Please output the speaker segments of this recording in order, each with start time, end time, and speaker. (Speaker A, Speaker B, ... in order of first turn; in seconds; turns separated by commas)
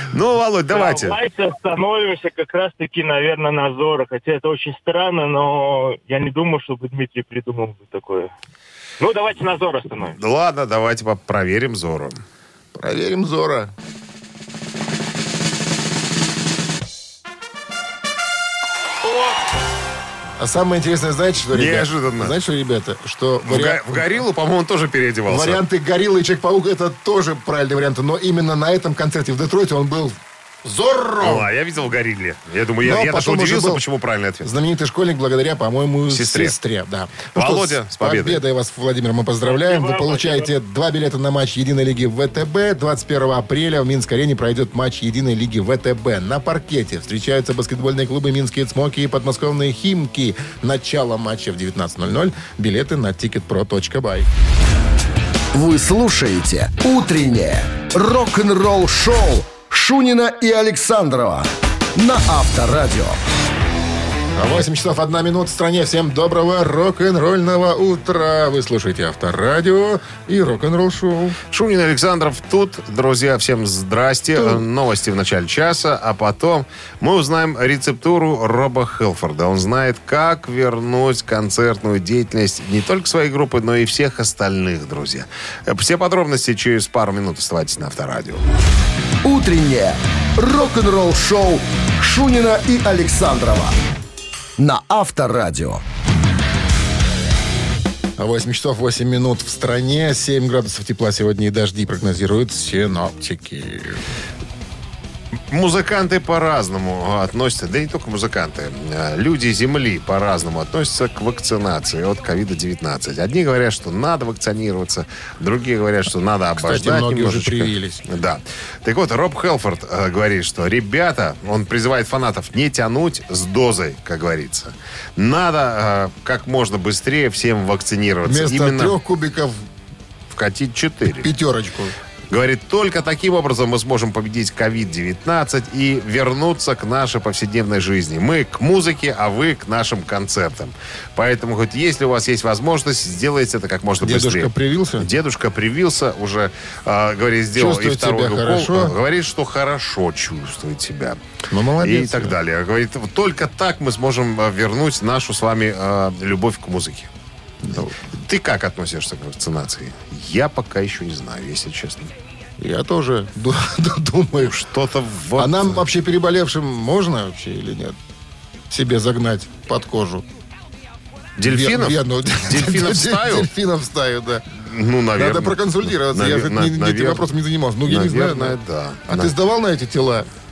Speaker A: 0.1-1.2, Speaker B: 0.7-8.3, Speaker B: 9.0-10.2, Speaker A: 10.1-12.2, Speaker C: 12.7-13.7, Speaker C: 20.4-24.2, Speaker A: 21.5-22.4, Speaker A: 23.5-25.6, Speaker C: 25.3-31.5, Speaker A: 31.2-34.5, Speaker C: 32.8-33.9, Speaker C: 34.4-54.3, Speaker A: 36.1-36.5, Speaker A: 37.4-38.4, Speaker B: 39.5-40.5, Speaker D: 55.5-63.2, Speaker C: 64.3-71.4, Speaker A: 71.5-88.4, Speaker C: 74.3-74.7, Speaker D: 89.2-93.8, Speaker D: 94.6-95.8, Speaker C: 98.2-104.0, Speaker A: 105.5-129.0, Speaker C: 116.6-118.1, Speaker C: 128.2-129.7, Speaker A: 130.3-131.3, Speaker C: 131.2-132.0, Speaker A: 132.3-151.2, Speaker C: 144.0-145.1, Speaker C: 147.5-149.0, Speaker C: 151.5-152.4, Speaker A: 151.8-157.1, Speaker C: 157.6-158.0, Speaker A: 158.2-162.1, Speaker C: 162.6-164.7, Speaker A: 164.4-165.8, Speaker C: 165.4-168.0, Speaker C: 168.7-170.3, Speaker A: 171.4-173.5, Speaker C: 171.4-174.5, Speaker A: 174.7-177.2, Speaker C: 175.1-180.3, Speaker A: 177.9-179.3